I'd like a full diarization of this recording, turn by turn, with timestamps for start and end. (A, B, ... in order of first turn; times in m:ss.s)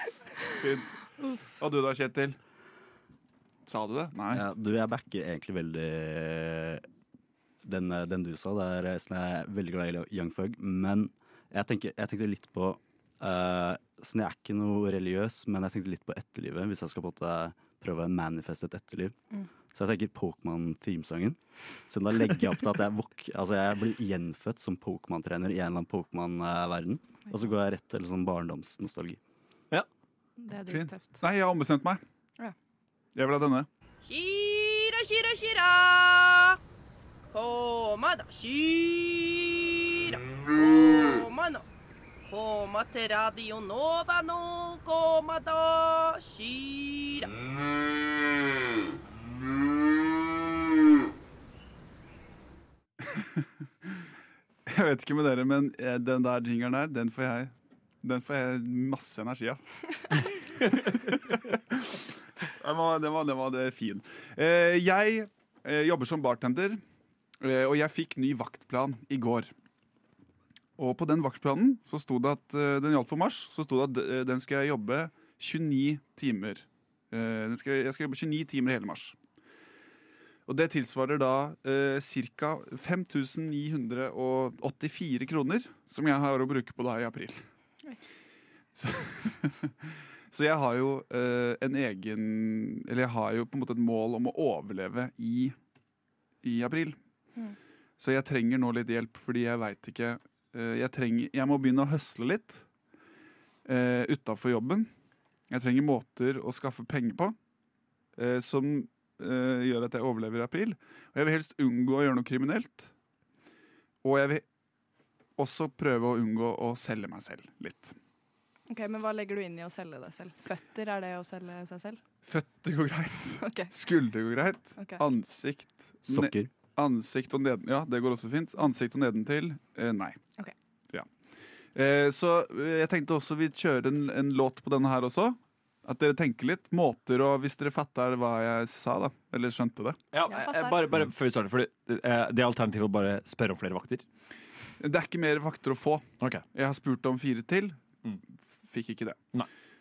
0:00.6-0:02.4 A
0:03.7-0:04.4 A
0:04.3-0:06.8 B
0:07.6-0:19.2 B
0:19.7-0:29.2 B
0:30.4-0:31.2 C
0:30.7-0:32.0 A
0:33.1-0:33.7 A
0:34.0-0:36.6 D
0:37.3-0:41.6 D
0:42.2-0:47.3 D
0:53.0-0:53.4 A
0:54.7-0:59.6 A
1:00.7-1:02.0 A
1:02.6-1:06.8 A
1:07.4-1:09.5 A
1:10.8-1:19.2 A
1:20.5-1:27.4 A
1:28.7-1:29.7 A
1:30.3-1:35.5 A
1:36.4-1:37.0 A
1:38.0-1:42.6 A
1:43.6-1:44.9 A
1:45.5-1:47.3 A
1:48.2-1:52.9 A
1:54.0-1:54.4 A
1:55.4-1:58.0 A
1:58.7-2:02.0 C
2:02.2-2:10.2 A
2:03.4-2:03.7 C
2:06.1-2:06.5 B
2:11.7-2:20.0 A
2:20.1-2:24.0 E
2:20.3-2:20.8 C
2:24.8-2:27.8 A
2:28.7-2:29.2 A